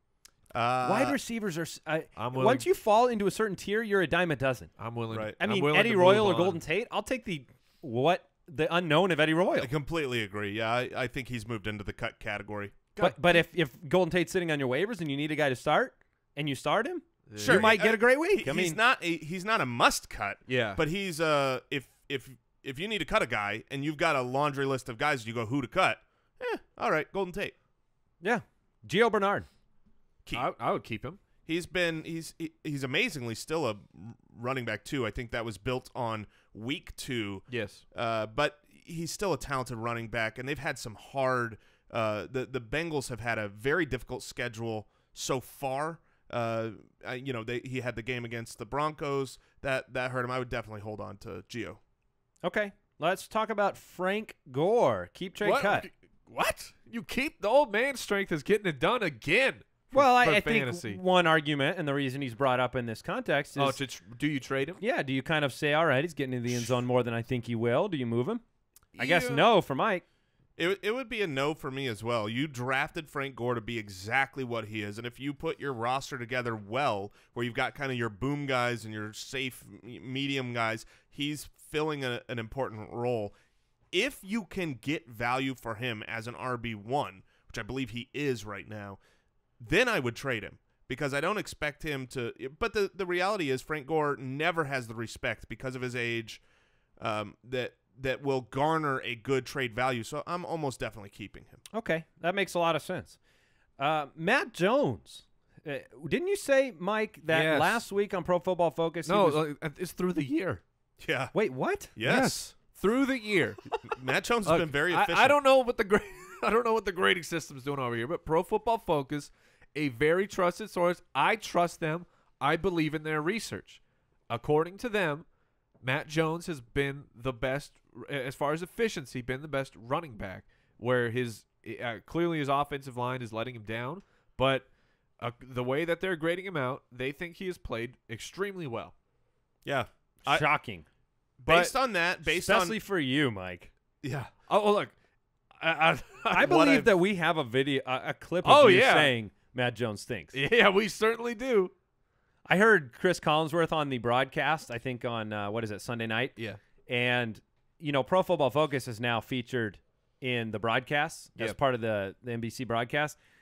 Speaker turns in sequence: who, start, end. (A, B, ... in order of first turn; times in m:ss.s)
0:00.5-0:01.2 A
0:00.8-0:04.7 B
0:02.2-0:02.6 C
0:04.8-0:06.6 C
0:05.4-0:09.7 B
0:09.6-0:12.8 A
0:12.9-0:13.4 C
0:13.0-0:18.8 B
0:17.3-0:17.7 C
0:17.4-0:27.5 A
0:20.5-0:20.8 C
0:28.2-0:29.5 B
0:30.3-0:31.2 C
0:31.5-0:51.8 A
0:37.5-0:37.8 C
0:52.4-0:55.8 B
0:55.4-1:01.0 C
0:59.9-1:03.8 B
1:03.6-1:04.8 C
1:04.8-1:08.4 B
1:08.9-1:09.5 C
1:08.9-1:10.0 B
1:10.6-1:23.3 A
1:23.9-1:29.0 A
1:29.6-1:36.4 A
1:37.0-1:41.6 A
1:41.7-1:43.2 B
1:43.8-1:49.4 B
1:47.3-1:47.8 C
1:49.0-1:50.6 C
1:51.0-1:51.3 A
1:51.3-1:51.9 B
1:52.0-1:52.5 A
1:52.0-1:53.6 C
1:53.9-1:55.4 A
1:54.4-2:05.2 C
2:05.8-2:14.7 C
2:15.2-2:18.9 C
2:19.6-2:20.4 A
2:20.2-2:20.8 B
2:21.4-2:22.8 A
2:21.5-2:21.7 C
2:22.3-2:23.7 B
2:24.0-2:24.3 A
2:24.5-2:24.9 C
2:25.6-2:26.9 C
2:26.3-2:30.4 B
2:28.4-2:29.1 C
2:30.3-2:31.7 C
2:32.4-2:36.4 B
2:36.9-2:43.2 B